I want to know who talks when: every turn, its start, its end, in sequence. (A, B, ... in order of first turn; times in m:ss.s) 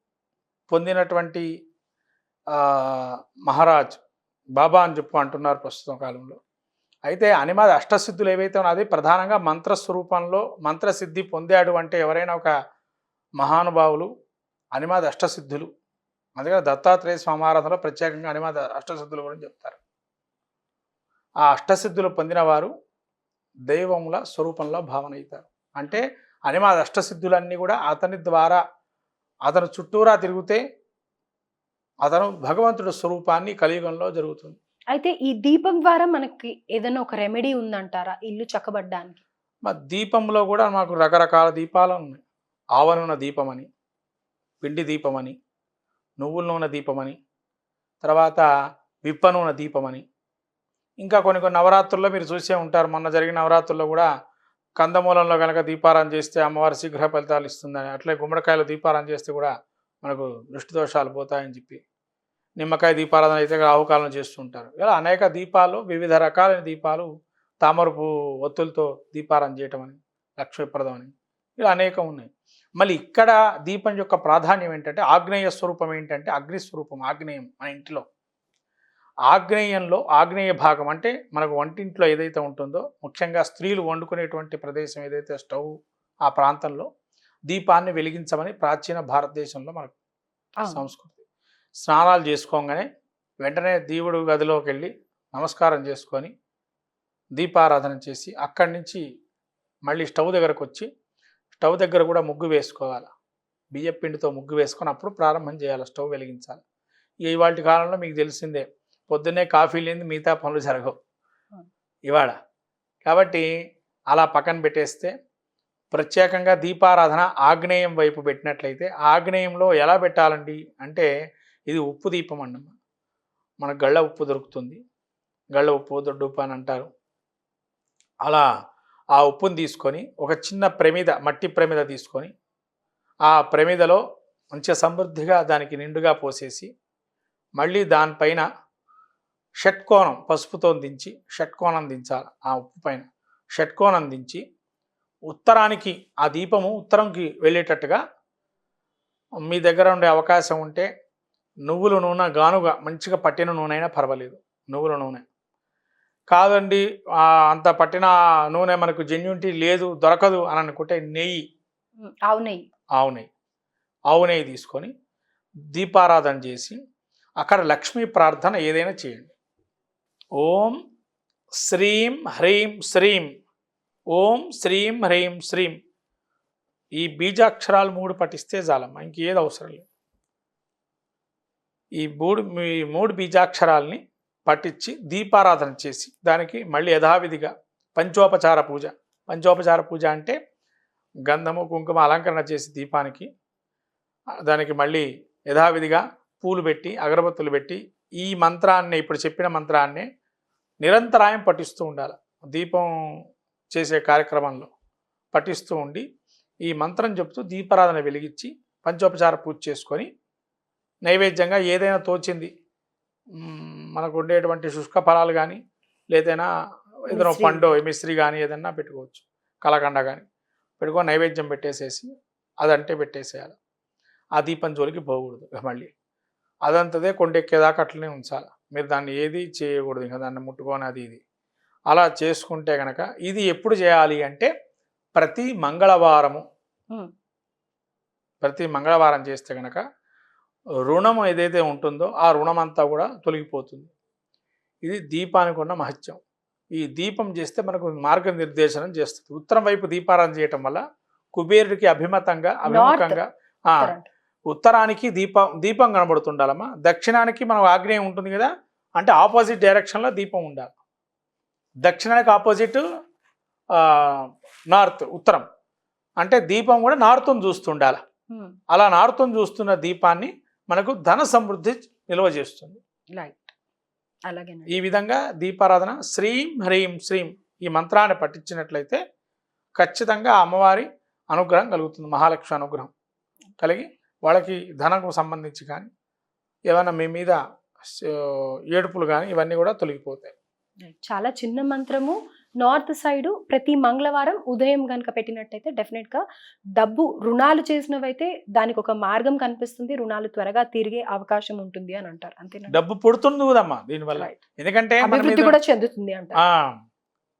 0:00.7-0:01.5 A
0:02.5-0:04.0 A
0:04.6-0:06.4 A
0:07.1-0:12.5 A
0:13.4-0:14.1 A
0:14.8-0:15.7 A
0:16.4-0:19.8 A
0:21.4-0:22.7 A
0:23.7-0:28.6 A
0:29.5-0:30.6 A
0:32.0-0:34.6 A
0:34.9-0:39.2 B
0:39.7-0:42.2 A
0:42.8-0:43.7 A
0:44.6-0:45.4 A
0:46.2-0:47.2 A
0:48.0-0:48.4 A
0:49.0-0:50.0 A
0:51.0-0:54.1 A
0:54.8-0:59.5 A
1:00.0-1:01.8 A
1:02.6-1:07.1 A
1:07.6-1:18.0 A
1:19.3-1:25.7 A
1:26.2-1:26.9 A
1:27.5-1:30.0 A
1:30.7-1:31.2 A
1:31.8-1:32.9 A
1:33.4-1:36.3 A
1:37.4-1:39.0 A
1:39.9-1:40.9 A
1:41.6-1:43.1 A
1:43.7-1:46.6 A
1:47.2-1:51.0 A
1:52.1-1:52.4 A
1:53.1-1:53.5 A
1:54.1-1:55.1 A
1:55.9-2:01.1 A
2:01.7-2:02.8 A
2:03.6-2:04.8 A
2:05.5-2:06.9 A
2:09.2-2:12.3 A
2:13.3-2:14.0 A
2:14.5-2:16.7 A
2:17.6-2:18.4 A
2:19.6-2:24.4 A
2:25.3-2:28.0 A
2:29.5-2:30.9 A
2:31.7-2:35.2 A
2:36.3-2:41.4 A
2:42.0-2:42.6 B
2:43.0-2:43.3 A
2:44.1-2:44.9 A
2:45.8-2:46.8 A
2:47.4-2:49.3 A
2:50.4-2:50.8 A
2:51.6-2:53.3 A
2:54.1-2:55.8 A
2:57.0-2:59.9 A
3:02.0-3:10.4 A
3:11.3-3:13.3 A
3:14.5-3:20.1 A
3:20.8-3:22.9 A
3:23.7-3:24.7 A
3:25.3-3:26.0 A
3:26.7-3:30.1 A
3:31.1-3:32.5 A
3:33.4-3:35.6 A
3:36.1-3:36.5 A
3:37.1-3:37.7 B
3:37.1-3:40.2 A
3:40.8-3:42.1 A
3:42.6-3:43.6 A
3:44.4-3:45.9 A
3:46.7-3:51.2 A
3:51.9-3:54.5 A
3:55.2-3:56.4 A
3:58.4-3:59.8 A
4:00.9-4:03.9 A
4:04.9-4:06.2 A
4:06.8-4:10.8 A
4:11.4-4:13.9 A
4:12.7-4:13.2 B
4:13.8-4:14.1 B
4:14.5-4:20.7 A
4:21.8-4:22.8 A
4:23.8-4:25.4 A
4:26.2-4:28.0 A
4:28.7-4:32.8 A
4:33.2-4:33.6 B
4:34.3-4:34.7 B
4:34.7-4:39.0 A
4:39.8-4:42.9 A
4:43.6-4:45.9 A
4:46.7-4:47.4 A
4:47.9-4:50.3 A
4:50.8-4:56.2 B
4:56.8-5:02.7 B
5:02.7-5:05.6 A
5:05.0-5:06.4 B
5:06.4-5:06.8 A